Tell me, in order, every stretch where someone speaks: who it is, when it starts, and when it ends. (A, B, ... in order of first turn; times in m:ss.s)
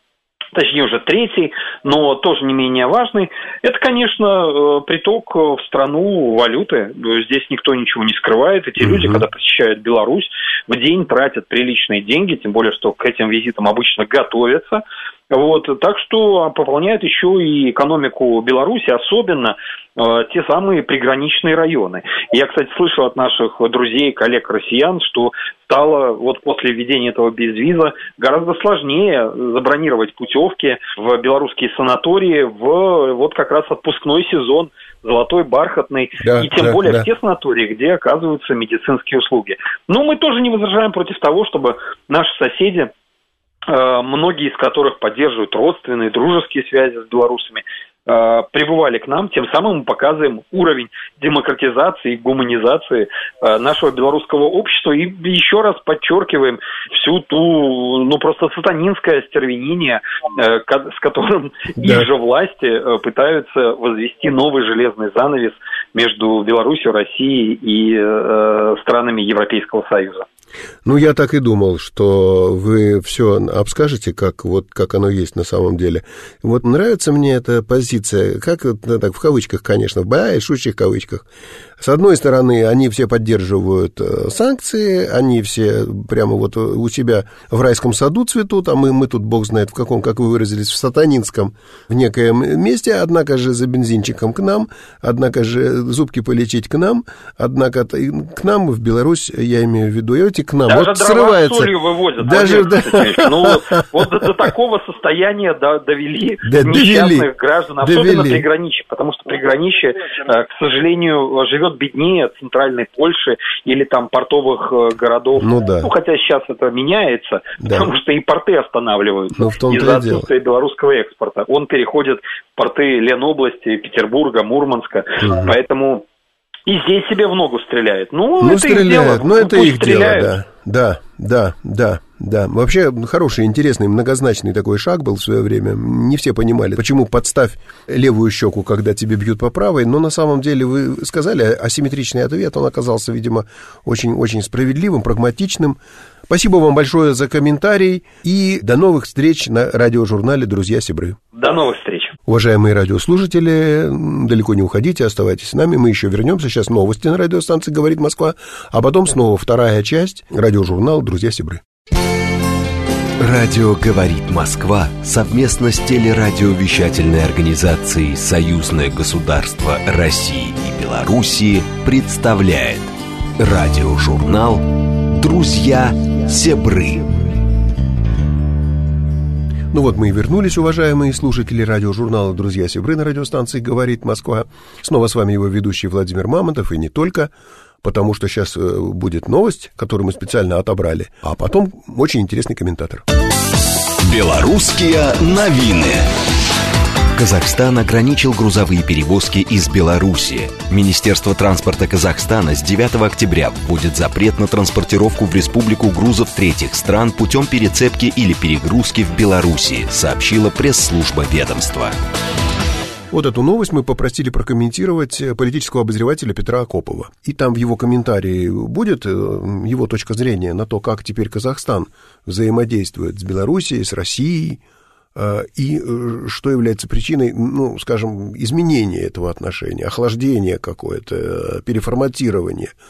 0:00.5-0:42.9 A
0:08.8-0:09.2 B
0:36.2-0:37.1 B
0:43.7-1:10.2 A
1:01.8-1:02.1 B
1:10.8-1:21.2 B
1:21.8-1:43.6 B
1:40.6-2:06.0 A
1:46.4-1:47.3 B
1:47.8-1:48.4 B
1:55.4-1:55.9 B
1:57.6-1:57.9 B
1:59.3-2:00.3 B
2:05.2-2:05.5 B
2:06.7-2:10.3 A
2:08.4-2:31.2 B
2:31.4-2:32.1 A
2:32.3-2:41.6 B
2:43.2-2:57.2 C
2:59.7-3:07.3 B
3:07.8-3:13.0 B
3:14.0-3:16.1 C
3:17.2-3:32.0 C
3:33.1-3:44.6 B
3:45.1-3:52.7 B